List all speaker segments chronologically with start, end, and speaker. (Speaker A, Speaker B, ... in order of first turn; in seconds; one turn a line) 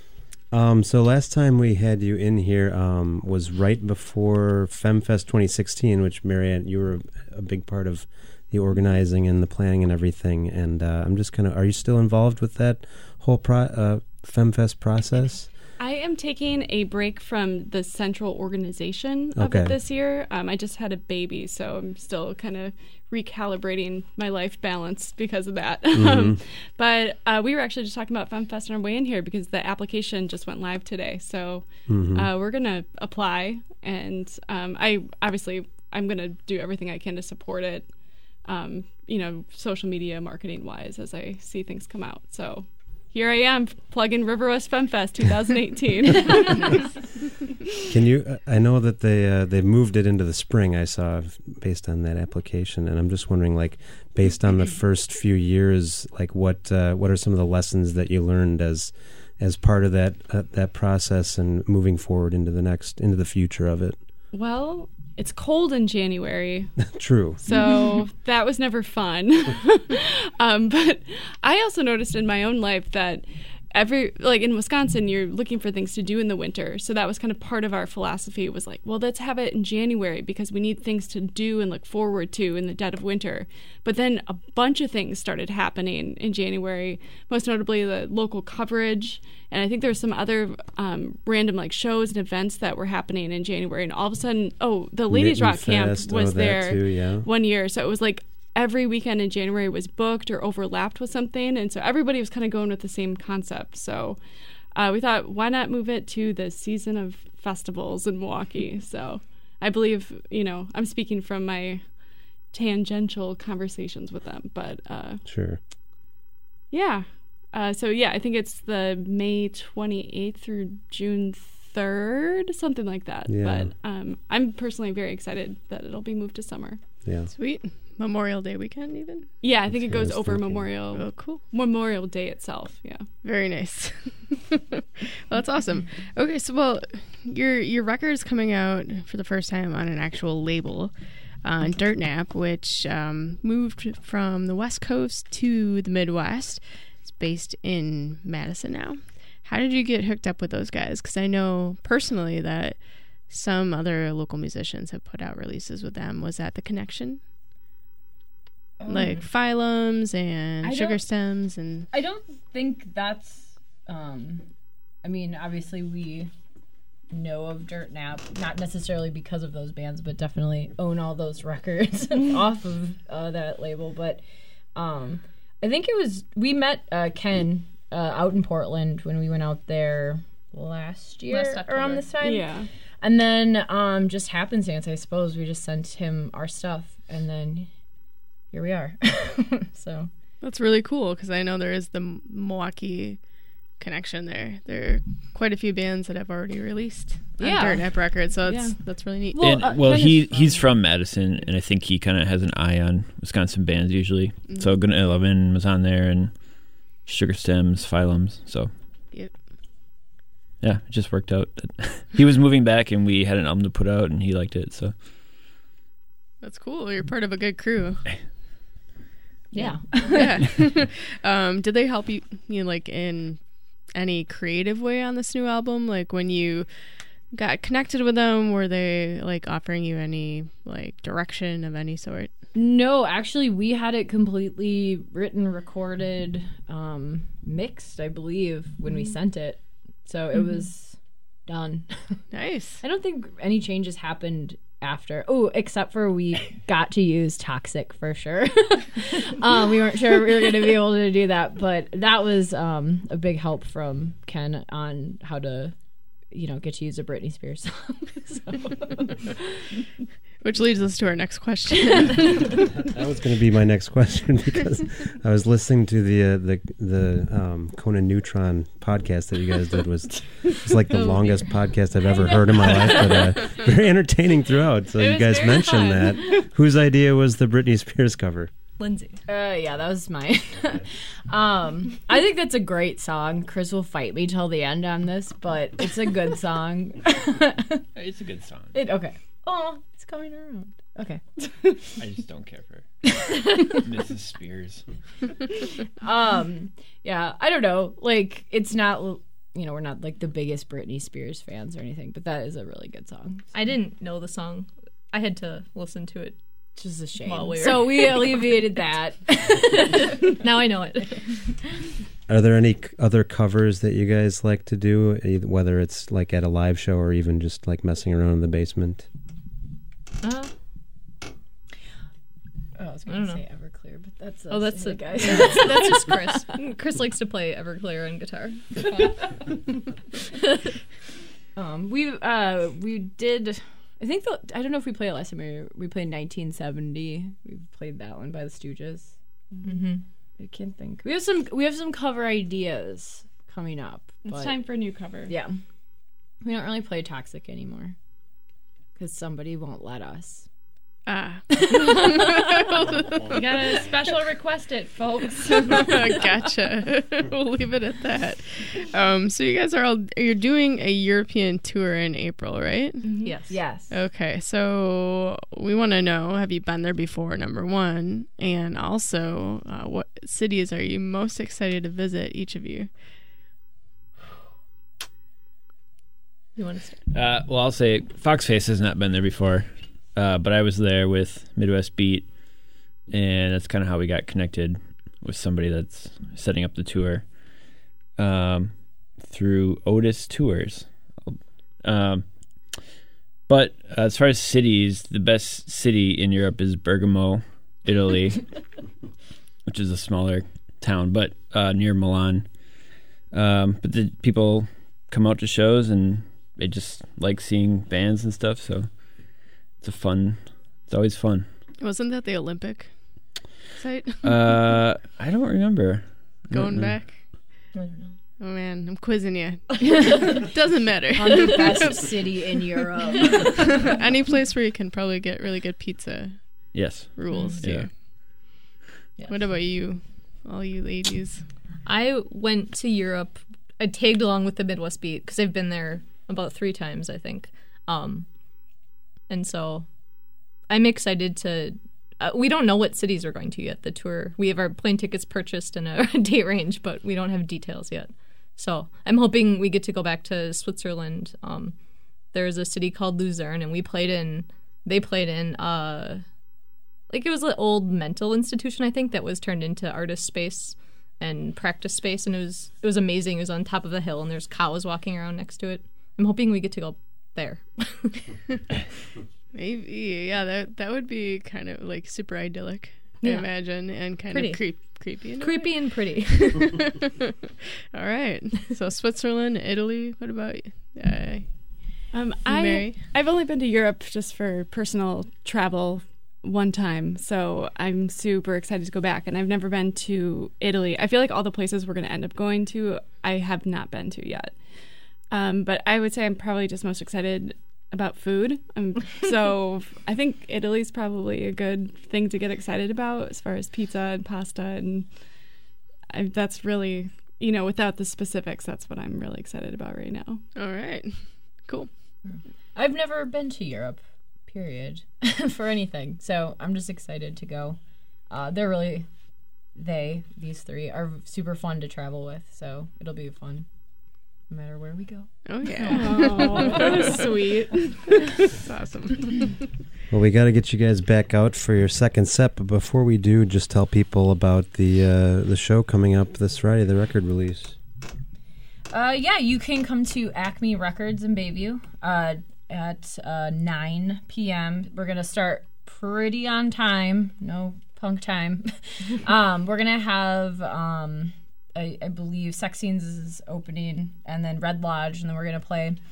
Speaker A: 0.5-15.5
Speaker B: 15.8-37.9
Speaker A: 19.4-19.7
Speaker A: 25.9-26.4
Speaker A: 31.9-32.3
Speaker B: 38.4-46.9
Speaker A: 47.9-64.0
Speaker B: 64.3-104.2
Speaker A: 67.0-67.4
Speaker A: 95.1-97.3
Speaker B: 104.7-115.2
Speaker A: 115.2-115.6
Speaker B: 116.7-126.8
Speaker A: 123.3-123.7
Speaker A: 127.0-127.3
Speaker C: 127.3-129.3
Speaker B: 129.4-133.1
Speaker A: 129.7-130.7
Speaker C: 130.9-131.4
Speaker C: 133.2-140.9
Speaker C: 141.4-157.2
Speaker D: 158.8-159.2
Speaker C: 158.9-161.9
Speaker D: 160.6-161.0
Speaker D: 161.9-164.4
Speaker D: 165.0-166.3
Speaker D: 167.1-174.2
Speaker D: 174.8-187.7
Speaker E: 181.3-182.1
Speaker B: 182.2-182.7
Speaker D: 188.5-190.1
Speaker C: 190.4-193.2
Speaker C: 193.8-199.5
Speaker D: 197.4-198.8
Speaker D: 199.3-200.8
Speaker F: 199.4-208.7
Speaker F: 210.6-215.0
Speaker C: 216.4-218.1
Speaker D: 219.5-220.5
Speaker C: 220.1-223.4
Speaker C: 223.9-226.7
Speaker C: 227.3-232.3
Speaker D: 232.5-242.2
Speaker C: 242.3-242.8
Speaker D: 242.8-255.8
Speaker D: 256.3-259.2
Speaker C: 260.4-262.3
Speaker A: 262.8-278.5
Speaker B: 272.6-273.4
Speaker B: 274.9-276.4
Speaker E: 278.8-279.2
Speaker D: 279.3-287.8
Speaker F: 287.9-288.9
Speaker D: 288.7-291.2
Speaker F: 292.0-292.9
Speaker F: 293.8-294.9
Speaker D: 296.0-303.5
Speaker E: 303.5-306.4
Speaker D: 306.8-310.3
Speaker E: 307.2-308.6
Speaker E: 310.1-311.5
Speaker A: 312.3-319.1
Speaker E: 320.2-320.5
Speaker D: 322.8-326.4
Speaker E: 323.1-323.4
Speaker E: 324.5-329.6
Speaker D: 331.6-339.1
Speaker E: 339.6-340.0
Speaker D: 340.4-344.6
Speaker B: 344.2-345.3
Speaker D: 345.3-345.6
Speaker D: 346.4-347.9
Speaker D: 349.0-350.5
Speaker C: 351.1-353.7
Speaker B: 353.3-355.9
Speaker C: 355.6-363.2
Speaker E: 363.2-363.6
Speaker D: 363.5-363.9
Speaker C: 363.9-372.9
Speaker E: 376.6-377.0
Speaker F: 377.1-387.4
Speaker F: 388.2-392.8
Speaker F: 393.5-398.5
Speaker F: 399.7-402.6
Speaker F: 403.3-411.5
Speaker C: 411.8-414.6
Speaker F: 414.2-417.1
Speaker C: 416.5-417.2
Speaker E: 417.7-418.2
Speaker C: 418.4-422.1
Speaker D: 421.2-423.8
Speaker C: 423.2-428.3
Speaker F: 426.7-427.9
Speaker E: 427.3-427.6
Speaker C: 429.3-431.4
Speaker E: 431.9-438.3
Speaker E: 439.3-439.9
Speaker E: 440.7-451.8
Speaker E: 452.3-456.2
Speaker E: 457.1-468.3
Speaker C: 469.5-477.0
Speaker E: 473.2-473.5
Speaker E: 474.3-476.7
Speaker C: 477.9-483.0
Speaker B: 482.1-505.4
Speaker B: 506.1-510.4
Speaker C: 510.6-511.9
Speaker D: 512.3-519.1
Speaker D: 519.8-523.7
Speaker D: 524.5-525.3
Speaker C: 525.5-527.2
Speaker B: 525.9-528.1
Speaker C: 528.5-529.6
Speaker A: 530.1-537.8
Speaker D: 538.9-556.0